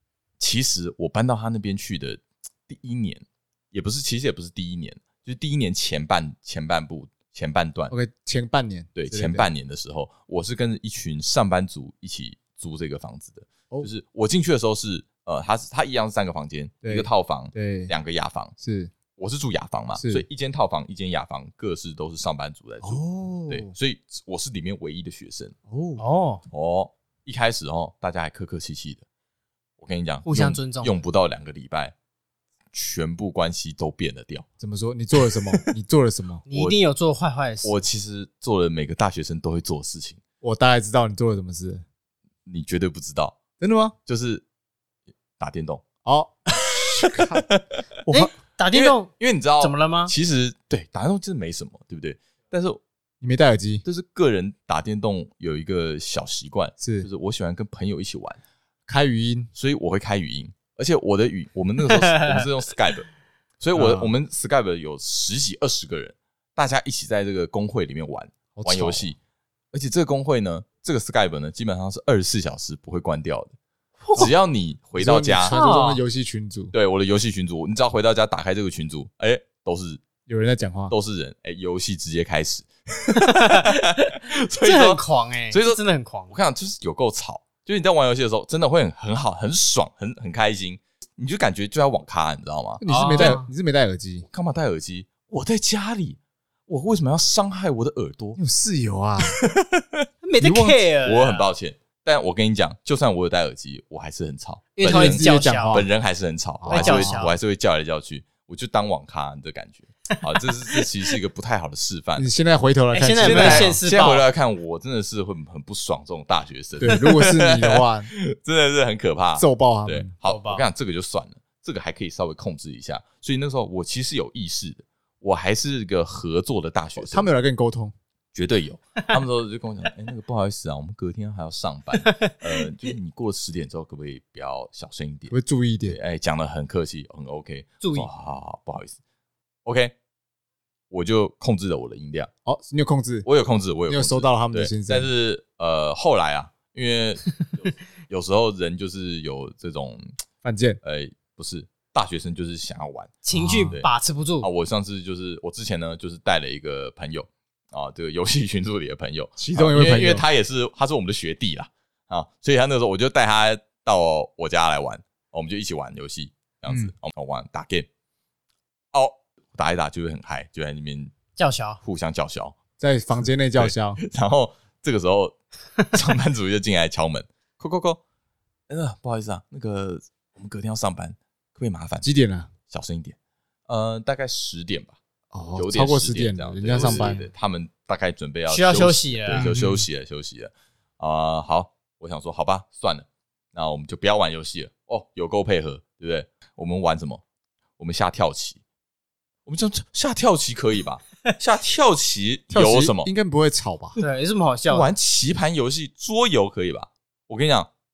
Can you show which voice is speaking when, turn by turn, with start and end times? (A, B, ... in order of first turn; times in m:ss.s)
0:00.4-0:07.9 A
0:07.9-0:09.5 B
0:09.0-0:18.5 A
0:16.8-0:17.9 B
0:18.6-0:18.9 B
0:19.2-0:25.6 A
0:20.0-0:20.2 B
0:22.8-0:23.7 B
0:25.7-0:26.0 B
0:26.0-0:26.4 C
0:26.5-0:29.0 A
0:29.8-0:31.9 A
0:30.3-0:31.0 C
0:32.7-0:34.5 A
0:34.6-0:36.4 B
0:36.5-0:37.8 C
0:36.5-0:36.8 A
0:37.6-0:40.2 A
0:40.4-0:41.8 B
0:42.5-0:43.4 A
0:43.6-0:44.0 B
0:44.1-0:44.4 A
0:45.4-0:45.8 A
0:46.0-0:47.5 B
0:47.0-0:47.6 A
0:48.0-0:48.3 B
0:48.1-0:50.1 C
0:48.7-0:52.8 A
0:53.2-0:53.8 B
0:53.9-0:58.4 A
0:56.8-0:57.1 B
0:58.9-0:59.5 B
0:59.6-1:03.1 A
1:01.9-1:02.5 C
1:03.6-1:09.2 A
1:03.7-1:04.1 B
1:08.6-1:09.1 B
1:09.7-1:13.5 A
1:14.0-1:14.3 C
1:14.2-1:15.6 A
1:15.0-1:16.7 B
1:15.5-1:16.0 C
1:16.7-1:20.0 A
1:20.3-1:20.9 B
1:20.9-1:33.4 A
1:23.1-1:26.4 C
1:32.8-1:34.3 B
1:32.9-1:33.5 C
1:34.3-1:38.4 A
1:38.4-1:39.4 B
1:39.3-1:40.1 A
1:40.2-1:41.5 C
1:40.4-1:40.7 B
1:40.9-1:52.3 A
1:44.8-1:45.8 C
1:44.8-1:45.9 B
1:46.6-1:47.2 B
1:46.7-1:47.4 C
1:50.1-1:50.9 C
1:52.2-1:53.8 B
1:52.9-1:54.2 C
1:53.2-2:07.3 A
1:56.8-1:58.1 B
1:59.4-2:00.1 B
2:00.2-2:00.6 C
2:07.0-2:07.9 B
2:08.4-2:15.3 A
2:12.0-2:12.6 C
2:15.3-2:16.0 B
2:15.9-2:19.0 A
2:17.8-2:18.1 C
2:19.6-2:19.9 A
2:20.9-2:22.3 A
2:22.4-2:23.3 B
2:23.2-2:30.1 A
2:23.9-2:25.1 B
2:30.4-2:30.8 B
2:30.8-2:33.9 A
2:33.2-2:34.5 C
2:33.3-2:33.8 B
2:34.4-2:47.9 A
2:39.4-2:40.2 B
2:48.9-2:51.1 A
2:51.4-2:51.8 C
2:51.8-2:52.6 A
2:52.8-2:54.0 B
2:53.6-2:58.0 A
2:58.7-3:02.1 A
3:02.0-3:02.5 B
3:02.7-3:03.2 A
3:03.7-3:05.0 A
3:05.3-3:07.3 B
3:05.6-3:17.2 A
3:06.8-3:07.2 C
3:08.5-3:09.5 C
3:09.3-3:09.9 B
3:17.8-3:18.6 A
3:19.5-3:23.1 A
3:22.5-3:24.0 B
3:24.0-3:24.9 C
3:24.7-3:27.7 A